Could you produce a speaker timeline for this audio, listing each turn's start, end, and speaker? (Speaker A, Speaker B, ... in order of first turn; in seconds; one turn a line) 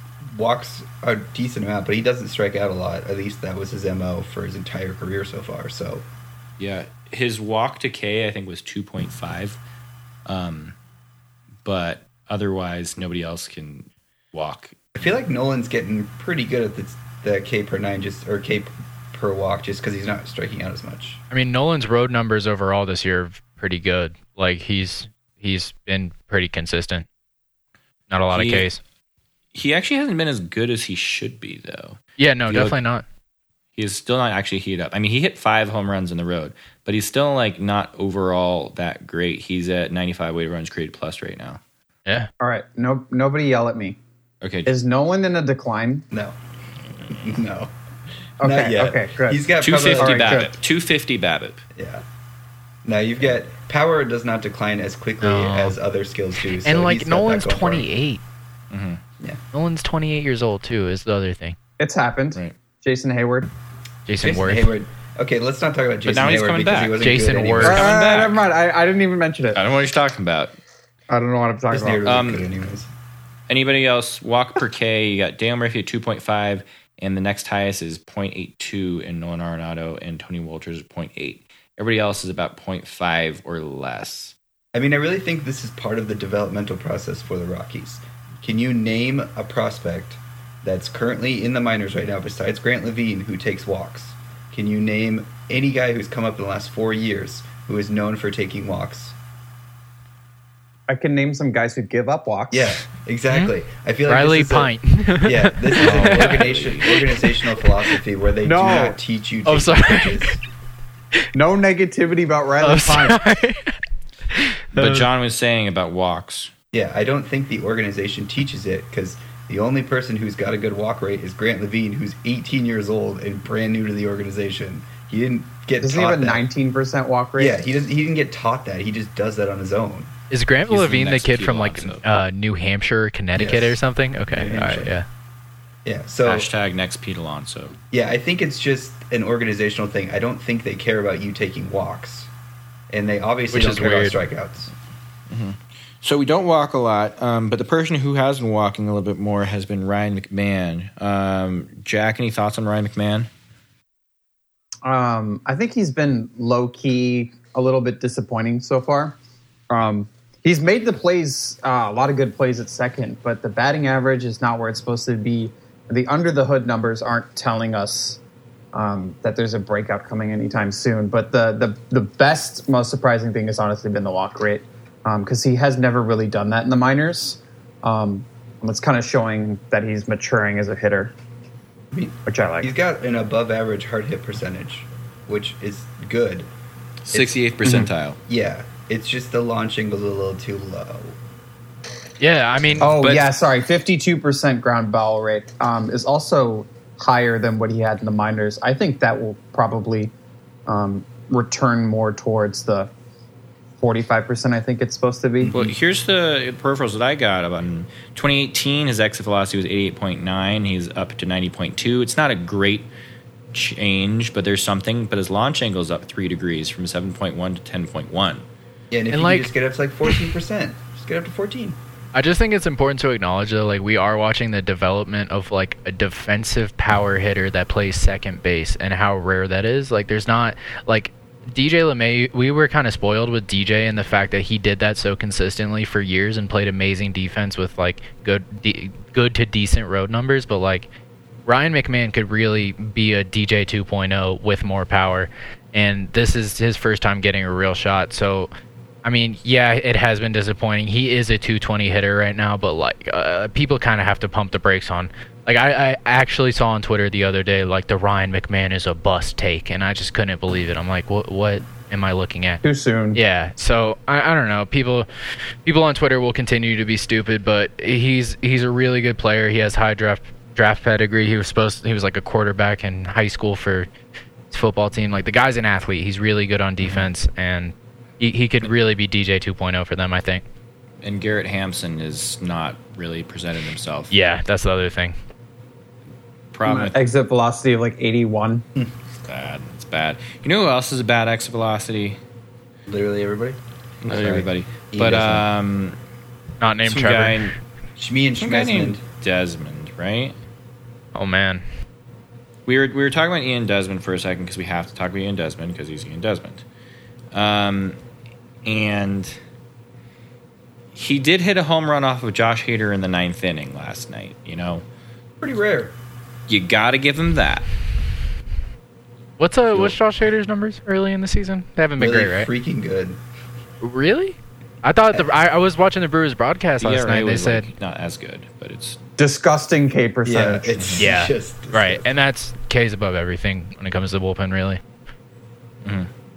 Speaker A: 0.2-6.0
Speaker B: 6.6-9.6
Speaker B: 10.2-10.7
Speaker B: 11.6-14.8
Speaker A: 14.9-21.2
Speaker C: 21.3-27.1
Speaker C: 28.1-28.8
Speaker B: 28.3-28.7
Speaker B: 29.5-32.8
Speaker C: 32.2-33.0
Speaker B: 33.8-41.6
Speaker D: 42.4-44.0
Speaker B: 44.4-44.7
Speaker D: 44.6-46.0
Speaker A: 47.1-47.7
Speaker A: 48.4-50.4
Speaker D: 48.4-50.5
Speaker B: 49.6-51.6
Speaker A: 51.7-52.0
Speaker A: 52.8-57.9
Speaker C: 55.2-55.8
Speaker C: 56.6-58.2
Speaker B: 58.7-59.0
Speaker C: 59.5-61.5
Speaker D: 61.8-63.5
Speaker C: 64.1-64.7
Speaker A: 64.2-67.9
Speaker B: 66.0-68.4
Speaker C: 67.0-67.8
Speaker D: 67.6-69.6
Speaker B: 69.5-70.5
Speaker D: 71.1-72.0
Speaker A: 71.7-72.9
Speaker B: 72.0-72.5
Speaker B: 73.5-84.3
Speaker A: 84.7-99.1
Speaker D: 100.9-102.8
Speaker A: 102.5-110.4
Speaker C: 104.1-106.4
Speaker B: 105.8-107.0
Speaker D: 108.4-109.0
Speaker C: 109.5-110.3
Speaker D: 111.3-113.2
Speaker C: 112.6-113.8
Speaker C: 114.3-115.0
Speaker B: 114.7-116.5
Speaker A: 116.7-126.4
Speaker D: 125.8-127.5
Speaker A: 127.4-130.1
Speaker C: 130.3-135.1
Speaker B: 130.7-132.1
Speaker A: 133.3-133.8
Speaker A: 134.3-135.0
Speaker A: 135.8-136.5
Speaker B: 136.2-137.7
Speaker A: 137.9-142.3
Speaker A: 142.9-144.7
Speaker C: 143.5-144.2
Speaker B: 145.3-153.3
Speaker D: 154.8-159.2
Speaker D: 159.7-168.2
Speaker D: 168.7-181.1
Speaker A: 181.9-186.5
Speaker D: 182.2-182.7
Speaker B: 187.1-188.2
Speaker A: 187.1-187.4
Speaker D: 187.6-187.9
Speaker A: 188.3-191.2
Speaker C: 192.2-193.3
Speaker D: 192.8-200.1
Speaker D: 200.7-202.9
Speaker D: 203.8-205.7
Speaker A: 205.4-205.7
Speaker B: 205.5-212.9
Speaker B: 213.5-218.4
Speaker A: 218.9-221.8
Speaker C: 219.1-219.5
Speaker C: 222.1-240.9
Speaker C: 241.4-248.5
Speaker C: 249.0-262.6
Speaker D: 262.6-263.2
Speaker C: 263.1-265.1
Speaker C: 265.6-273.9
Speaker C: 274.5-280.4
Speaker B: 276.8-277.1
Speaker B: 281.0-284.1
Speaker C: 284.1-285.1
Speaker B: 286.5-286.9
Speaker D: 286.6-288.6
Speaker B: 289.2-292.2
Speaker A: 292.9-295.4
Speaker B: 294.0-296.0
Speaker C: 296.6-297.5
Speaker B: 296.8-297.5
Speaker A: 298.0-299.0
Speaker B: 298.4-300.3
Speaker C: 301.1-301.6
Speaker B: 302.6-306.6
Speaker B: 307.3-308.0
Speaker B: 308.6-309.3
Speaker B: 310.9-314.8
Speaker A: 315.4-315.9
Speaker B: 316.5-317.7
Speaker C: 319.4-322.5
Speaker A: 322.0-323.2
Speaker C: 323.8-327.7
Speaker B: 326.8-329.0
Speaker D: 329.2-330.7
Speaker A: 330.2-332.1
Speaker B: 330.8-331.0
Speaker C: 330.9-334.8
Speaker B: 335.8-336.1